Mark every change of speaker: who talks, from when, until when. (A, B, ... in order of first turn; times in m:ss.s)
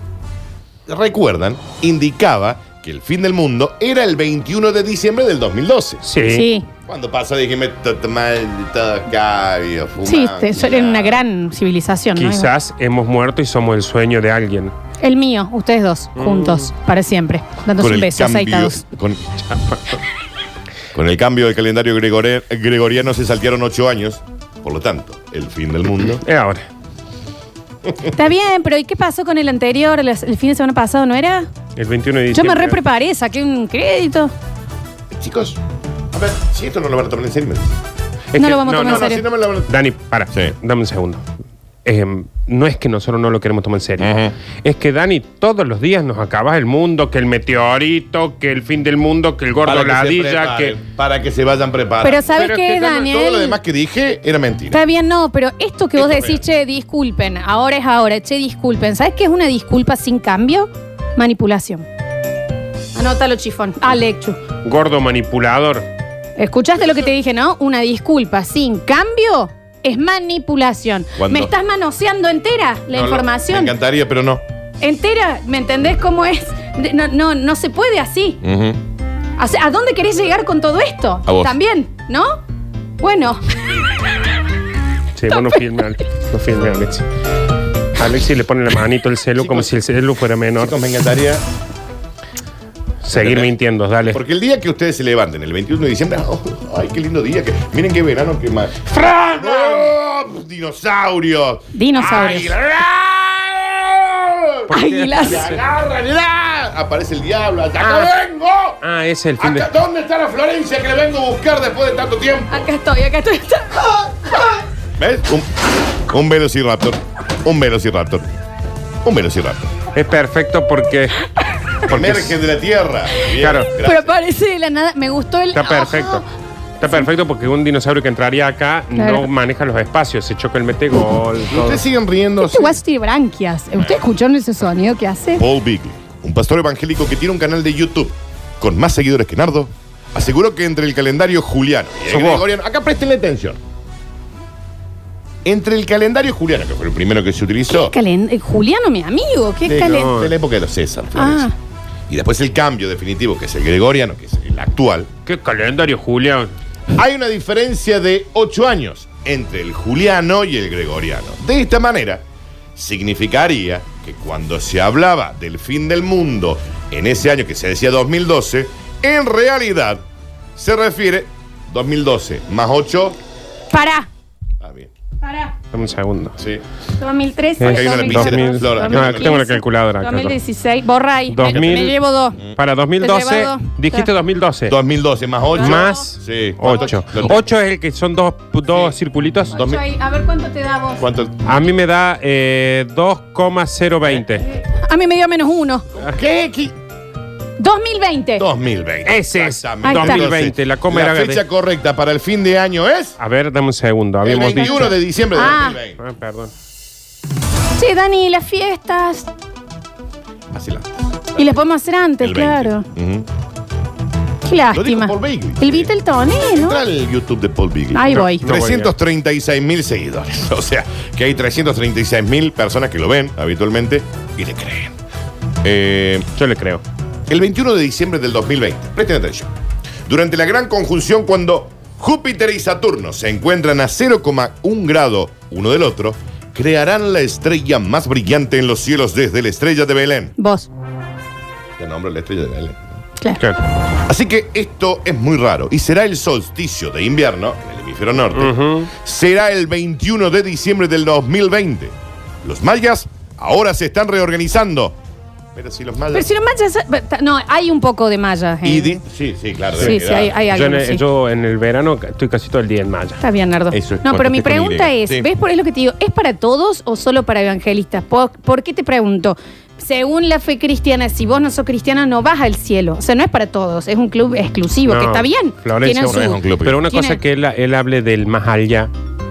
0:00.9-0:06.0 A
0:06.0-0:06.5 B
0:06.2-0:06.7 C
0:06.9-0:11.2 A
0:10.0-0:12.5 C
0:12.2-0:14.7 B
0:15.0-0:18.8 C
0:16.2-0:16.7 B
0:17.8-0:19.3 A
0:20.9-0:26.2 A
0:26.2-0:26.7 B
0:28.1-0:31.5 C
0:31.8-0:32.8 B
0:32.3-0:34.3 C
0:35.1-0:35.6 A
0:36.1-0:37.8 A
0:38.4-0:41.2 B
0:38.4-0:39.2 C
0:38.7-0:39.7 A
0:41.8-0:50.8 B
0:44.0-0:44.3 A
0:49.6-0:54.8 A
0:52.0-0:53.6 C
0:52.4-0:53.0 B
0:54.7-1:01.9 C
0:56.0-0:56.4 A
1:03.0-1:04.4 C
1:04.6-1:05.9 B
1:06.4-1:13.7 C
1:11.2-1:11.5 A
1:12.9-1:14.4 A
1:14.8-1:18.4 C
1:18.4-1:18.8 A
1:19.4-1:22.4 C
1:21.3-1:21.5 A
1:23.0-1:23.9 C
1:25.2-1:27.1 B
1:28.0-1:30.7 B
1:29.4-1:29.7 A
1:30.6-1:31.4 A
1:33.0-1:34.2 B
1:33.1-1:33.5 A
1:34.1-1:48.8 A
1:38.9-1:39.9 B
1:41.7-1:42.6 C
1:44.7-1:45.6 B
1:44.7-1:45.6 C
1:47.8-1:48.1 C
1:48.8-1:49.7 B
1:49.4-1:52.7 A
1:52.5-1:54.5 C
1:55.0-1:55.5 A
1:56.1-1:58.3 A
1:59.0-1:59.6 A
1:59.9-2:01.2 B
2:01.8-2:02.4 B
2:01.9-2:04.2 A
2:03.4-2:03.7 B
2:03.7-2:06.2 C
2:05.5-2:06.2 B
2:06.8-2:11.9 B
2:09.0-2:09.3 C
2:11.5-2:12.8 A
2:12.4-2:15.4 C
2:13.8-2:14.0 A
2:15.4-2:23.6 A
2:22.1-2:22.5 B
2:25.4-2:27.9 A
2:27.7-2:30.1 C
2:29.7-2:31.5 A
2:29.8-2:30.3 B
2:31.2-2:31.6 C
2:32.1-2:35.1 A
2:35.3-2:36.5 B
2:37.0-2:42.2 A
2:42.8-2:50.0 A
2:50.6-2:53.2 A
2:53.7-2:54.1 C
2:54.6-2:54.9 A
2:55.2-2:55.5 C
2:55.7-2:56.4 B
2:56.4-2:56.6 A
2:57.0-3:02.4 C
2:57.6-3:00.4 B
2:57.6-2:59.3 A
3:01.3-3:02.0 B
3:02.5-3:04.8 B
3:03.0-3:04.1 C
3:04.7-3:07.4 A
3:05.5-3:09.6 B
3:05.6-3:06.1 C
3:08.7-3:09.0 A
3:09.5-3:09.8 A
3:09.5-3:11.0 C
3:11.0-3:11.4 A
3:11.4-3:14.4 B
3:14.7-3:15.9 C
3:16.0-3:16.8 A
3:17.6-3:18.5 C
3:18.4-3:23.2 A
3:19.0-3:21.5 B
3:19.8-3:20.2 C
3:23.2-3:26.5 B
3:24.2-3:26.0 A
3:24.5-3:25.8 C
3:27.8-3:29.3 C
3:30.5-3:31.7 A
3:31.4-3:32.9 C
3:32.2-3:33.3 A
3:34.4-3:36.8 C
3:34.7-3:35.9 A
3:36.4-3:45.0 A
3:37.9-3:38.4 C
3:38.1-3:38.9 B
3:45.6-3:46.3 A
3:46.4-3:46.8 B
3:47.3-3:49.5 A
3:50.1-4:00.3 A
4:00.4-4:00.7 C
4:01.8-4:03.0 A
4:04.1-4:15.0 A
4:08.3-4:08.9 B
4:15.6-4:16.3 A
4:16.1-4:19.0 C
4:18.6-4:20.4 A
4:19.8-4:23.2 B
4:19.8-4:21.0 C
4:23.2-4:37.2 C
4:23.7-4:25.3 A
4:34.9-4:38.9 B
4:36.1-4:36.8 A